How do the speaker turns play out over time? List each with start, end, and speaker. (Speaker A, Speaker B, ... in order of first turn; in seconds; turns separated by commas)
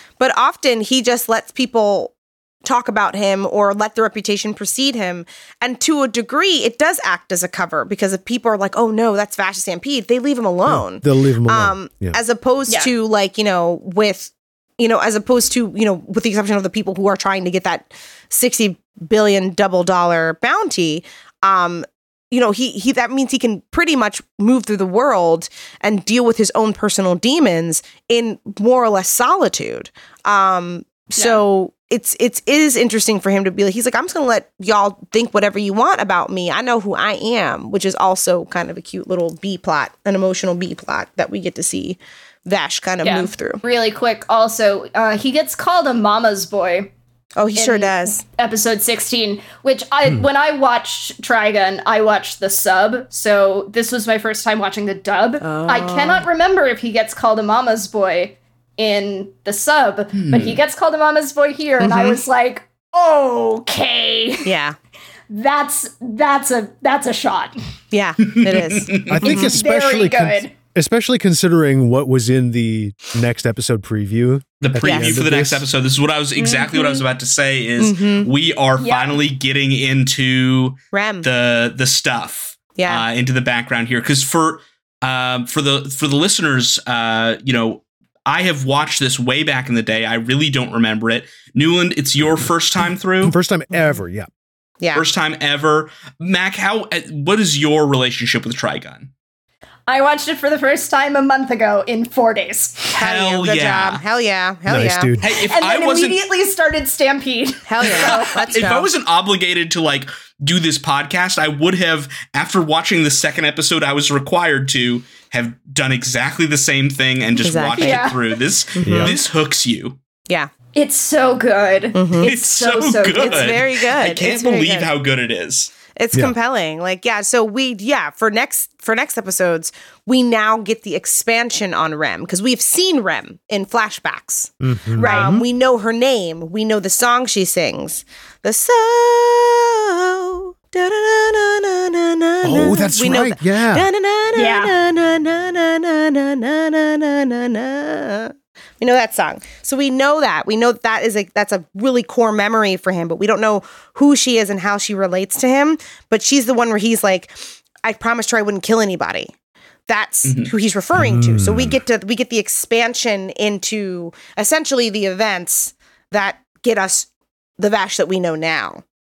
Speaker A: 0.2-43.6, Speaker B: 10.7-12.2, Speaker C: 31.1-31.4, Speaker C: 43.0-46.9, Speaker A: 47.4-48.2, Speaker C: 47.5-64.5, Speaker A: 55.4-56.2, Speaker D: 60.1-60.6, Speaker A: 61.8-62.2, Speaker A: 64.4-64.8, Speaker C: 65.3-67.6, Speaker A: 67.9-69.5, Speaker D: 68.2-69.2, Speaker B: 69.1-75.6, Speaker C: 69.2-70.5, Speaker D: 74.6-93.3, Speaker A: 74.8-75.2, Speaker C: 76.4-77.0, Speaker A: 77.8-78.3, Speaker C: 78.8-79.2, Speaker A: 80.9-81.3, Speaker A: 82.8-83.0, Speaker B: 93.2-94.3, Speaker D: 94.9-99.1, Speaker C: 99.9-103.0, Speaker D: 102.9-104.0, Speaker A: 103.0-105.1, Speaker B: 104.7-105.2, Speaker D: 105.2-106.2, Speaker C: 105.3-108.5, Speaker A: 107.7-108.9, Speaker D: 107.8-120.0, Speaker A: 117.4-118.1, Speaker C: 117.8-118.2, Speaker A: 118.8-119.2, Speaker B: 118.8-119.2, Speaker C: 120.7-123.6, Speaker A: 121.9-122.3, Speaker D: 122.2-125.7, Speaker A: 123.2-124.9, Speaker A: 125.9-159.3, Speaker B: 134.6-135.4, Speaker C: 135.0-135.4, Speaker B: 142.4-143.9, Speaker C: 144.3-144.7, Speaker A: 159.9-168.8, Speaker D: 160.2-160.5, Speaker B: 160.9-161.8